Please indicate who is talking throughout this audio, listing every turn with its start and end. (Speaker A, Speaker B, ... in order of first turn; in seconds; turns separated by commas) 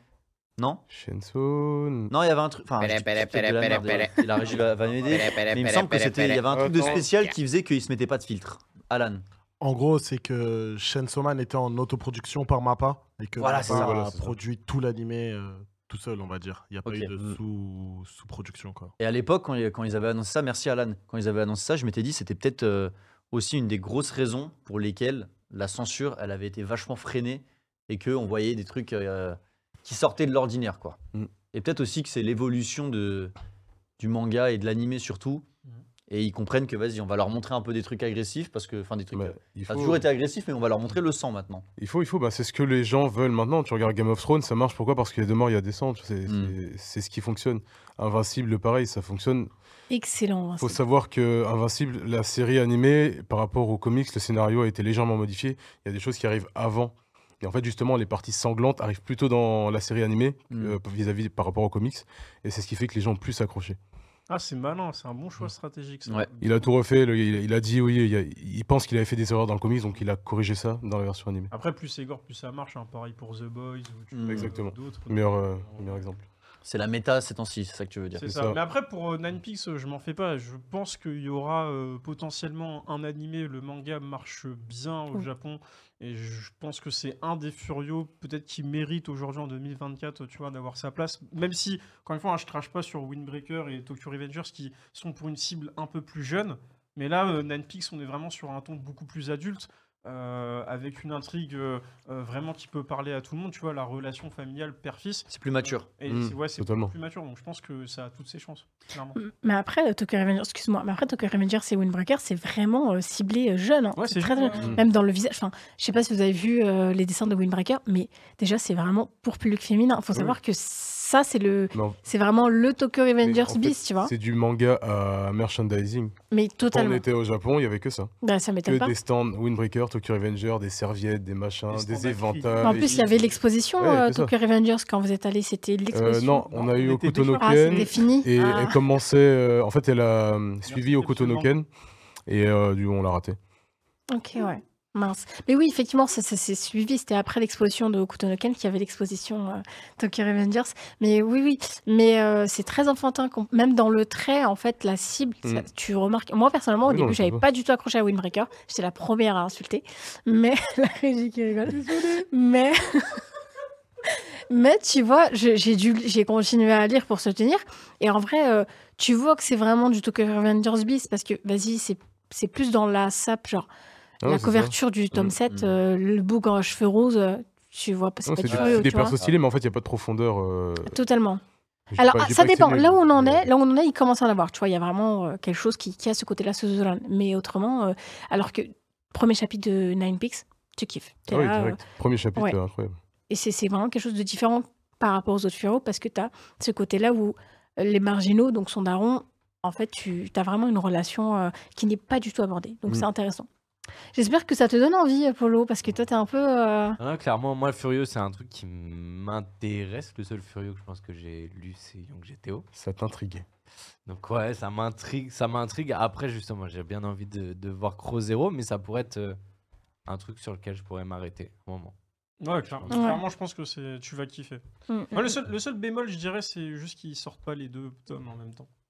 Speaker A: 0.9-2.1, Speaker B: 2.1-9.2, Speaker A: 6.5-7.1, Speaker C: 9.6-18.9, Speaker B: 13.4-14.0, Speaker A: 13.6-14.3, Speaker B: 16.8-17.4, Speaker B: 19.0-31.0, Speaker B: 31.5-33.3, Speaker B: 34.0-35.4, Speaker B: 36.1-41.6, Speaker A: 39.1-40.0, Speaker A: 41.8-49.5, Speaker B: 46.3-46.5, Speaker D: 49.9-50.8, Speaker A: 50.6-63.8, Speaker B: 60.5-60.8, Speaker E: 64.3-66.7, Speaker A: 66.4-71.5, Speaker E: 71.5-76.1, Speaker B: 74.1-74.5, Speaker A: 74.3-76.2, Speaker B: 76.6-78.3, Speaker E: 78.1-109.2, Speaker A: 78.2-78.6, Speaker B: 105.3-105.9, Speaker A: 106.1-106.9, Speaker D: 109.2-124.1, Speaker E: 114.0-114.8, Speaker A: 121.7-122.0, Speaker A: 123.2-126.2, Speaker D: 126.3-127.0, Speaker A: 126.7-128.1, Speaker D: 128.2-128.9, Speaker A: 128.7-133.0, Speaker E: 131.7-133.4, Speaker D: 132.6-136.6, Speaker A: 133.8-134.3, Speaker A: 135.9-141.7, Speaker E: 136.6-138.0, Speaker D: 137.4-138.8, Speaker E: 140.7-141.5, Speaker A: 142.3-143.4, Speaker D: 144.1-163.2, Speaker A: 156.8-157.4, Speaker D: 164.1-173.7, Speaker A: 174.2-174.7, Speaker D: 174.2-179.2, Speaker B: 175.1-175.7, Speaker A: 178.2-180.9, Speaker B: 178.5-179.3, Speaker D: 180.8-181.4, Speaker A: 181.9-183.5, Speaker D: 182.0-191.8, Speaker A: 191.3-192.9, Speaker D: 193.3-203.5, Speaker D: 204.1-207.0, Speaker F: 207.0-212.7, Speaker A: 212.7-213.4, Speaker F: 214.1-219.4, Speaker F: 220.1-221.9, Speaker E: 222.4-228.7, Speaker D: 222.9-223.2, Speaker D: 224.9-225.3